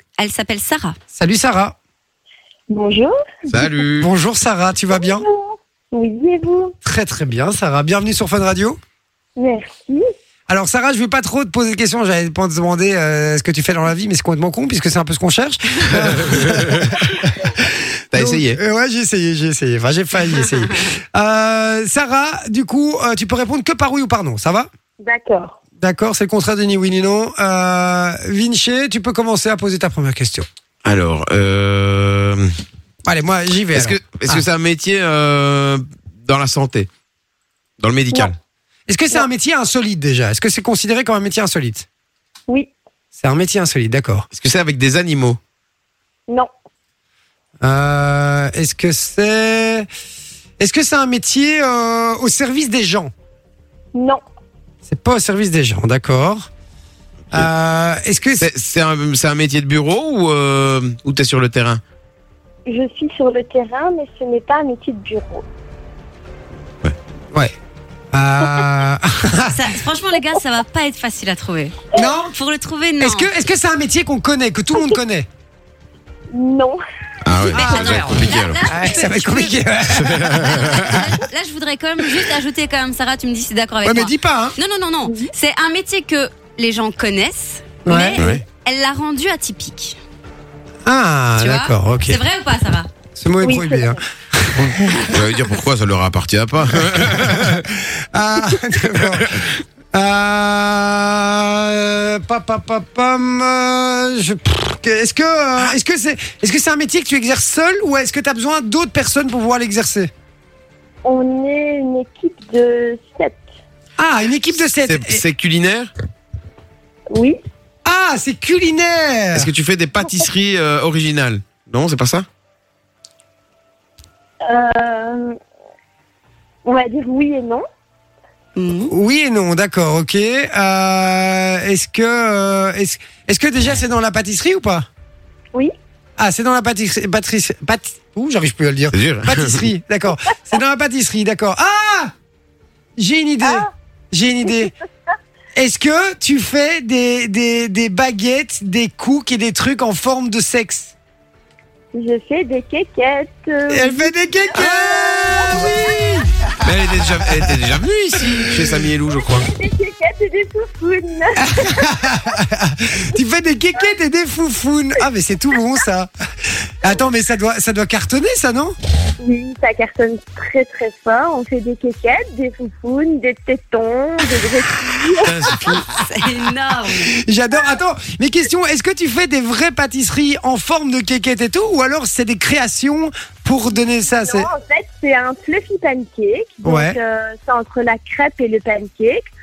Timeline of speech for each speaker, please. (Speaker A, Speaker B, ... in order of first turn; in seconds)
Speaker A: 0.2-1.0, 69.5-73.3, 77.4-79.6, 80.4-90.0, 91.4-92.9, 128.6-128.9, 175.9-177.1
Speaker B: 1.1-1.8, 4.0-5.2, 6.8-8.8, 10.5-24.7, 25.8-30.5, 33.1-34.4, 38.9-41.9, 43.1-44.3, 47.6-49.9, 50.6-53.1, 54.9-56.5, 57.3-58.5, 68.1-69.6, 72.0-72.3, 73.0-75.3, 77.5-81.0, 83.8-84.6, 87.8-88.3, 90.8-92.2, 93.2-95.1, 97.1-99.3, 99.9-110.1, 114.0-115.2, 117.8-119.5, 128.9-134.9, 136.2-142.1, 143.0-144.7, 145.6-150.9, 153.7-156.5, 157.4-158.8, 161.6-166.1, 166.6-168.8, 177.2-184.5, 186.6-187.0
Speaker C: 2.7-3.1, 4.9-6.7, 9.4-10.1, 25.0-25.6, 53.9-54.2, 62.7-65.5, 76.3-76.8, 85.0-85.3, 93.4-94.0, 111.0-113.5, 117.1-117.4, 124.5-125.4, 126.7-127.7, 143.4-143.7, 151.9-156.2, 159.1-162.3, 169.2-175.4, 184.1-189.2
Speaker D: 3.5-4.1, 15.9-16.9, 18.1-18.6, 30.9-32.5, 33.7-36.9, 37.8-38.4, 44.3-45.4, 58.4-61.8, 77.2-78.6, 79.9-81.1, 88.2-88.4, 94.6-97.7, 99.0-99.5, 114.8-115.9, 119.3-122.3, 138.9-139.7, 156.6-159.5, 175.2-175.8